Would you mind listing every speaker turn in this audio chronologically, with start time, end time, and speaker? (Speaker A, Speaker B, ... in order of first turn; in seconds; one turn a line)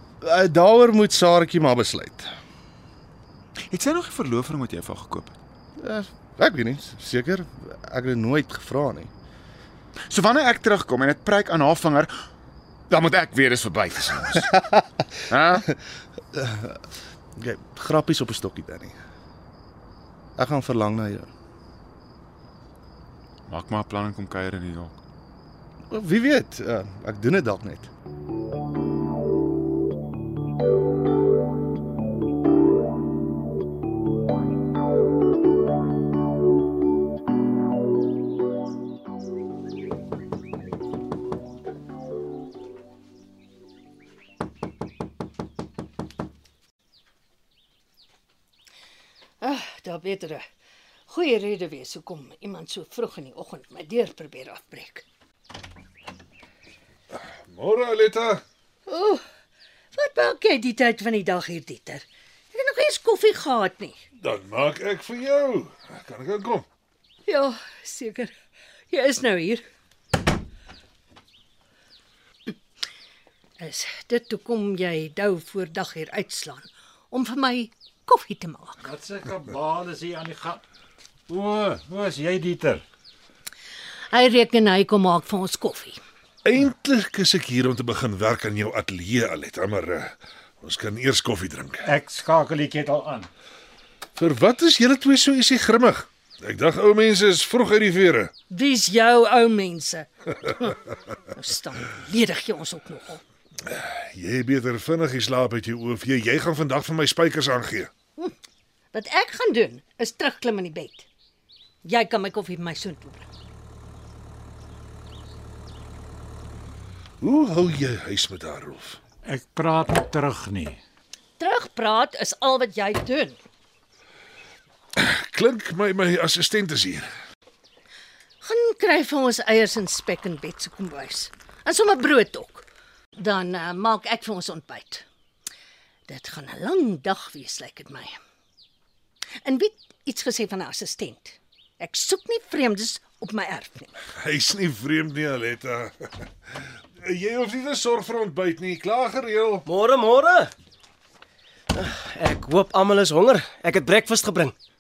Speaker A: 0.2-2.3
Speaker B: 3.7-5.4
Speaker A: 5.8-9.1
Speaker B: 10.1-12.1
Speaker B: 12.9-14.5
Speaker A: 14.5-14.8
Speaker B: 15.3-15.6
Speaker A: 16.3-16.8
Speaker A: 17.4-19.0
Speaker A: 20.4-21.3
Speaker B: 23.5-25.0
Speaker A: 25.9-27.9
Speaker C: 49.4-50.4
Speaker C: 51.1-55.0
Speaker D: 57.1-58.4
Speaker C: 58.9-59.2
Speaker C: 59.9-64.0
Speaker D: 64.2-66.7
Speaker C: 67.3-68.3
Speaker C: 68.9-69.6
Speaker C: 73.6-78.8
Speaker E: 78.8-80.6
Speaker E: 81.3-82.8
Speaker C: 84.1-86.0
Speaker D: 86.5-91.8
Speaker E: 91.9-93.3
Speaker D: 94.2-98.3
Speaker C: 98.5-100.8
Speaker C: 101.3-103.2
Speaker D: 103.7-107.9
Speaker C: 108.9-111.1
Speaker C: 111.8-113.3
Speaker D: 117.2-119.0
Speaker E: 119.2-120.8
Speaker C: 121.4-123.4
Speaker D: 125.0-127.1
Speaker C: 128.4-132.7
Speaker C: 133.2-135.1
Speaker C: 136.1-138.2
Speaker C: 139.4-143.9
Speaker D: 144.2-149.7
Speaker F: 149.7-150.5
Speaker F: 151.7-154.6